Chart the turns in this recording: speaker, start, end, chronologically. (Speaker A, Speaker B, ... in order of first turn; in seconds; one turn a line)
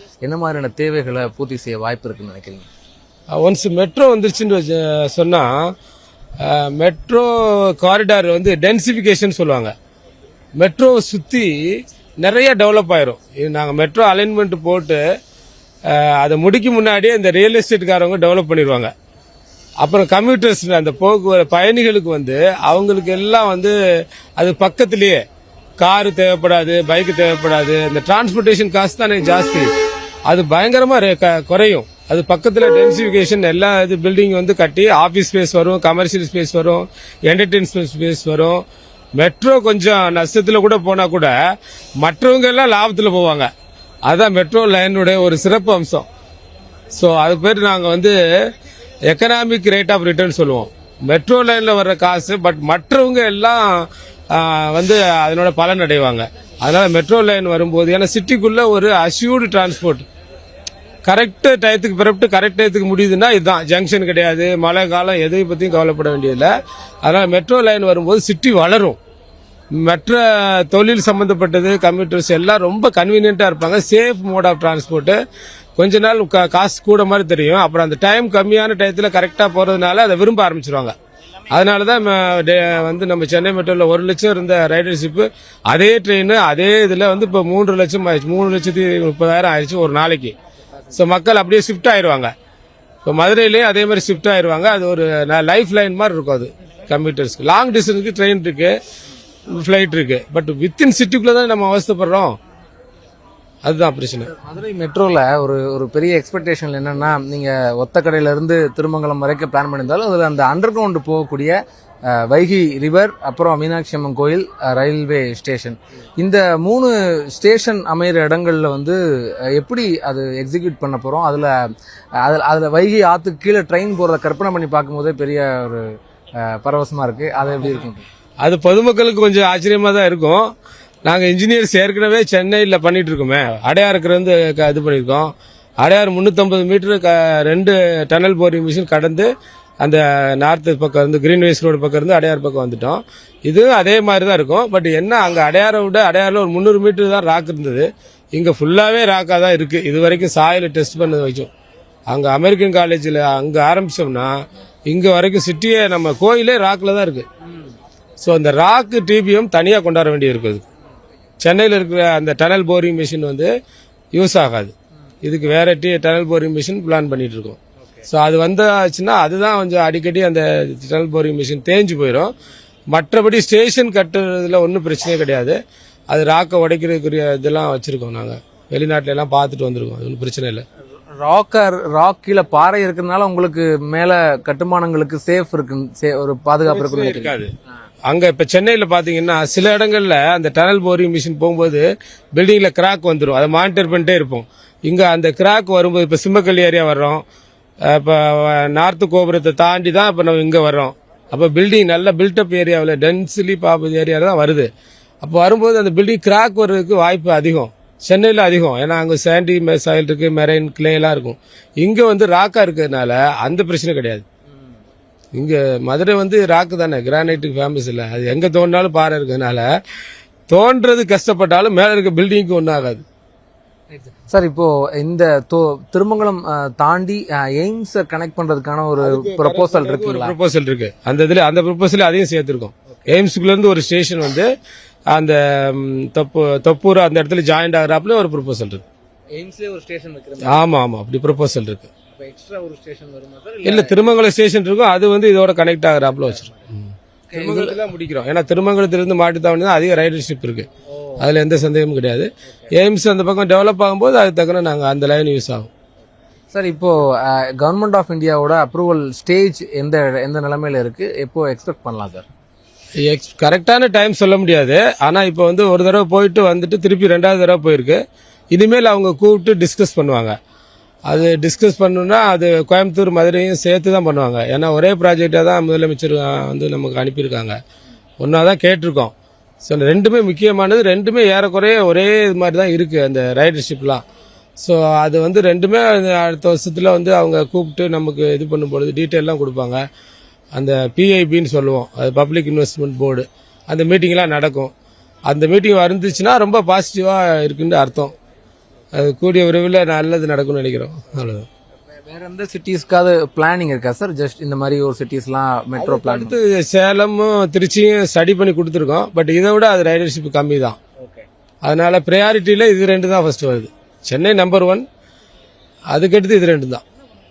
Speaker A: 0.2-2.7
Speaker B: 3.3-5.7
Speaker B: 6.4-9.7
Speaker B: 10.6-11.7
Speaker B: 12.2-15.0
Speaker B: 15.9-18.9
Speaker B: 19.8-23.8
Speaker B: 24.4-25.2
Speaker B: 25.8-29.7
Speaker B: 30.3-38.6
Speaker B: 39.2-41.3
Speaker B: 42.0-43.5
Speaker B: 44.1-46.1
Speaker B: 46.9-48.2
Speaker B: 49.1-60.1
Speaker B: 61.1-66.5
Speaker B: 67.0-69.0
Speaker B: 69.8-75.2
Speaker B: 75.8-81.0
Speaker B: 81.5-90.3
Speaker B: 90.9-92.3
Speaker B: 93.0-98.8
Speaker B: 99.5-102.4
Speaker B: 103.7-104.3
Speaker A: 104.2-119.0
Speaker A: 119.5-121.5
Speaker A: 122.2-125.9
Speaker A: 126.4-128.1
Speaker B: 128.4-130.5
Speaker B: 131.1-139.3
Speaker B: 139.8-151.5
Speaker B: 152.1-154.4
Speaker B: 154.9-157.3
Speaker B: 158.2-160.6
Speaker B: 161.4-163.5
Speaker B: 164.1-172.3
Speaker B: 172.9-175.6
Speaker B: 176.1-180.7
Speaker A: 181.2-187.4
Speaker B: 186.7-187.5
Speaker B: 188.1-197.2
Speaker B: 197.8-204.7
Speaker B: 205.2-214.2
Speaker A: 214.5-214.8
Speaker B: 215.3-219.7
Speaker B: 220.5-223.0
Speaker A: 223.9-230.3
Speaker B: 229.0-234.5
Speaker B: 235.1-238.9
Speaker A: 239.3-240.7
Speaker B: 240.4-241.9
Speaker A: 242.1-244.0
Speaker B: 243.6-250.7
Speaker A: 246.3-246.7
Speaker A: 247.3-247.8
Speaker A: 250.9-251.3
Speaker B: 251.2-255.7
Speaker A: 252.4-252.7
Speaker A: 256.5-262.3
Speaker B: 263.0-268.0
Speaker B: 268.5-270.4
Speaker B: 271.1-277.6
Speaker B: 278.2-284.0
Speaker B: 284.6-289.8
Speaker B: 290.6-294.7
Speaker B: 295.3-298.1
Speaker B: 298.9-301.5
Speaker A: 301.9-306.4
Speaker B: 305.8-310.8
Speaker A: 311.0-311.3
Speaker B: 311.6-314.9
Speaker B: 315.9-316.8